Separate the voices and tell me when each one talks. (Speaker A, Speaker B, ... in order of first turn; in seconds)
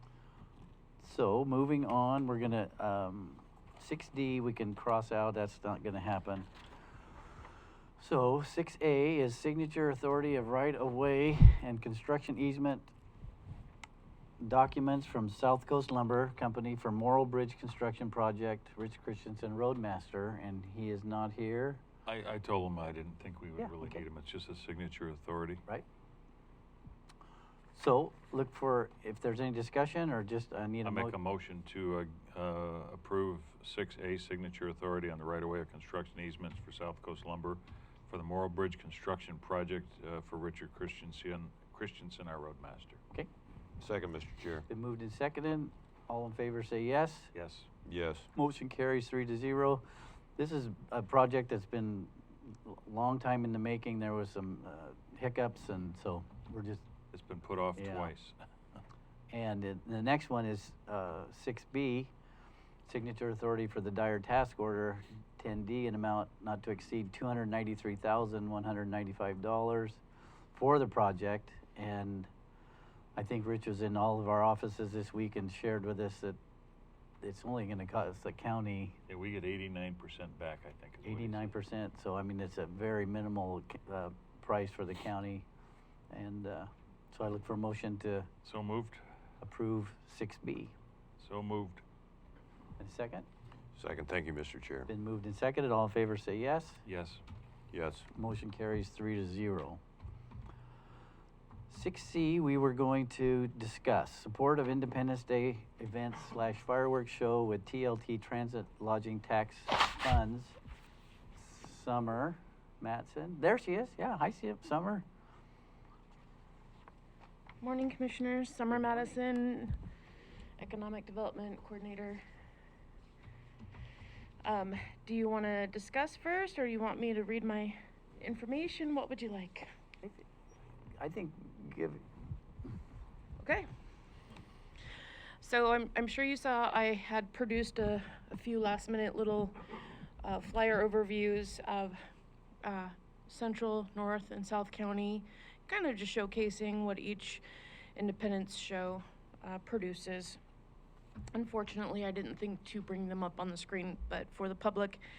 Speaker A: 1.0-6.5, 8.0-12.9, 14.4-21.8, 23.6-23.9, 27.7-31.1, 44.7-47.3, 48.3-49.8, 50.4-56.9, 57.8-58.1, 59.3-62.1, 62.8-70.0, 70.5-72.3, 73.2-76.4, 77.2-79.0, 81.0-85.5, 86.1-88.3, 89.4-90.7, 92.8-93.3, 94.9-96.8, 98.1-99.8, 101.7-110.6, 111.3-115.0, 131.0-132.0
Speaker B: 22.1-25.6, 30.8-43.0, 47.3-47.7, 57.1-58.4, 79.1-81.5, 88.4-89.0, 91.2-91.8, 96.8-97.2
Speaker C: 43.8-44.7, 47.8-48.3, 93.7-94.9, 97.7-98.1
Speaker D: 117.6-119.7, 120.6-122.2, 124.4-129.7, 133.4-133.7, 135.4-142.0, 142.6-147.4, 147.9-150.4, 151.3-155.0